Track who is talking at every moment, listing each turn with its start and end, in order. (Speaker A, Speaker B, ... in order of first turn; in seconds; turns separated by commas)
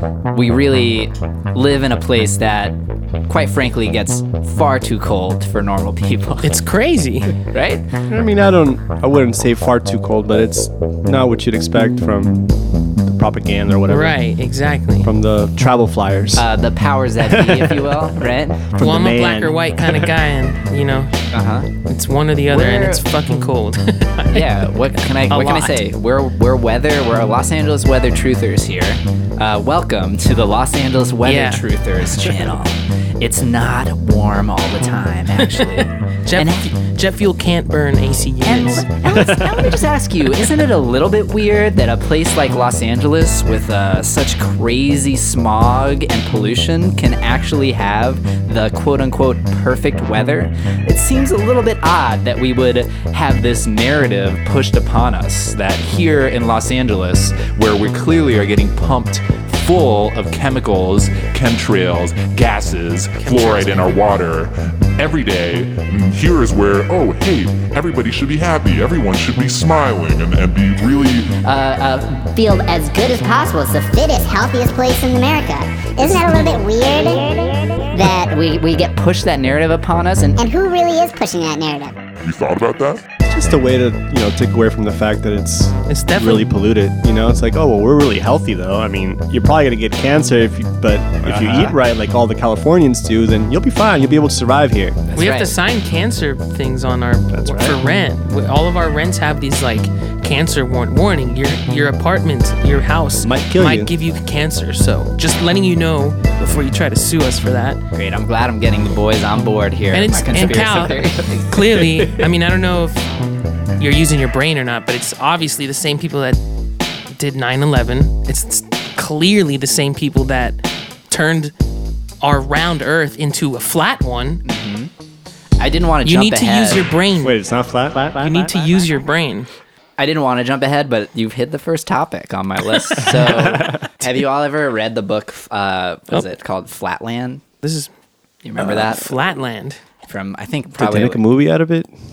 Speaker A: 0.3-6.5, Speaker B: 6.4-7.3, Speaker A: 7.4-7.9, Speaker C: 8.1-14.2, Speaker B: 13.9-15.1, Speaker C: 15.0-16.5, Speaker A: 16.4-18.7, Speaker C: 17.2-18.1, Speaker C: 18.6-20.1, Speaker B: 18.8-21.1, Speaker A: 21.3-21.7, Speaker B: 21.9-24.4, Speaker A: 22.5-23.0, Speaker A: 24.3-36.7, Speaker B: 25.3-25.8, Speaker B: 31.2-31.6, Speaker B: 35.5-38.9, Speaker A: 38.4-61.4, Speaker C: 39.2-39.5, Speaker D: 61.4-71.4, Speaker B: 63.2-63.9, Speaker A: 71.4-72.3, Speaker E: 72.3-78.4, Speaker A: 76.2-76.6, Speaker A: 78.3-80.4, Speaker E: 80.4-81.9, Speaker D: 82.2-83.0, Speaker C: 83.3-95.0, Speaker B: 85.9-86.5, Speaker A: 91.2-91.8, Speaker A: 95.1-95.5, Speaker B: 95.2-107.8, Speaker C: 97.3-97.8, Speaker C: 103.2-103.9, Speaker A: 107.9-112.3, Speaker B: 109.9-113.1, Speaker B: 113.8-116.4, Speaker B: 117.1-121.5, Speaker B: 122.2-124.4, Speaker A: 124.5-124.9, Speaker A: 125.6-126.9, Speaker B: 126.0-127.4, Speaker C: 127.2-128.7, Speaker B: 128.2-129.5, Speaker A: 130.0-137.4, Speaker C: 133.2-133.8, Speaker B: 137.6-137.9, Speaker A: 138.4-139.1, Speaker B: 138.6-139.8, Speaker A: 140.1-141.2, Speaker C: 140.8-141.9